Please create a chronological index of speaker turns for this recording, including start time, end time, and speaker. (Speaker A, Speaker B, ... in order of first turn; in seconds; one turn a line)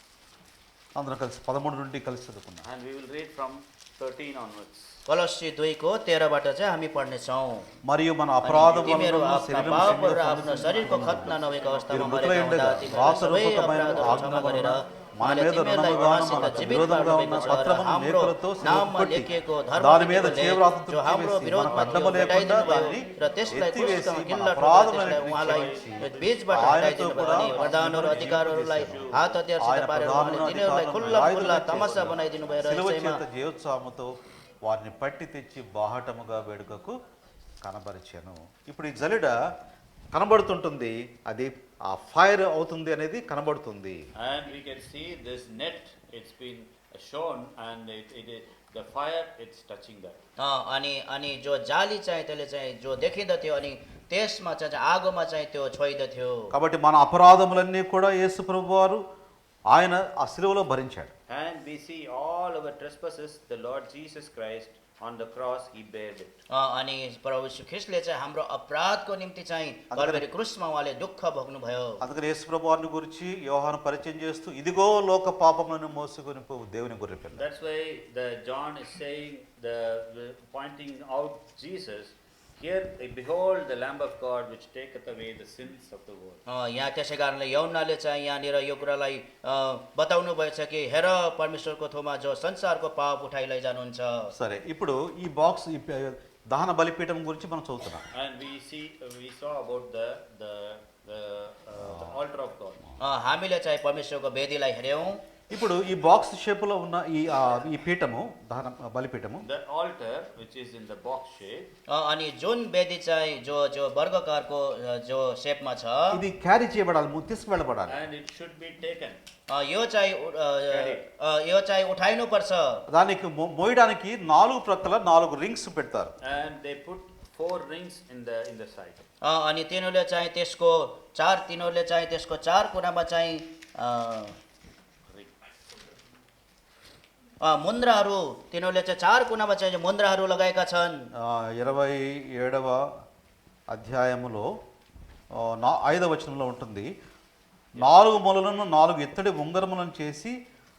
Speaker A: 0.9-2.6
Speaker B: 2.6-5.0
Speaker C: 5.1-7.7
Speaker A: 7.8-11.3
Speaker C: 8.4-33.2
Speaker B: 10.8-12.2
Speaker A: 11.9-34.1
Speaker B: 16.1-17.1
Speaker B: 25.4-29.3
Speaker B: 31.1-32.1
Speaker A: 34.6-36.9
Speaker A: 37.6-39.3
Speaker A: 40.1-44.0
Speaker B: 44.2-50.2
Speaker C: 50.4-56.5
Speaker A: 56.5-59.0
Speaker A: 59.7-61.1
Speaker B: 61.3-66.4
Speaker C: 66.5-72.0
Speaker A: 69.9-70.2
Speaker A: 72.0-77.4
Speaker B: 77.3-86.4
Speaker C: 86.5-94.3
Speaker A: 94.3-98.0
Speaker B: 98.1-102.8
Speaker A: 101.8-102.2
Speaker C: 103.0-105.2
Speaker A: 105.5-109.4
Speaker B: 109.4-111.7
Speaker C: 111.9-116.2
Speaker A: 116.1-118.0
Speaker B: 117.9-119.2
Speaker C: 119.5-122.8
Speaker B: 120.7-121.0
Speaker A: 122.9-126.1
Speaker B: 126.2-129.0
Speaker C: 129.2-134.3
Speaker C: 137.4-141.0
Speaker A: 141.2-142.8
Speaker A: 143.7-144.5
Speaker A: 145.4-146.9
Speaker B: 147.8-148.1
Speaker A: 147.8-150.3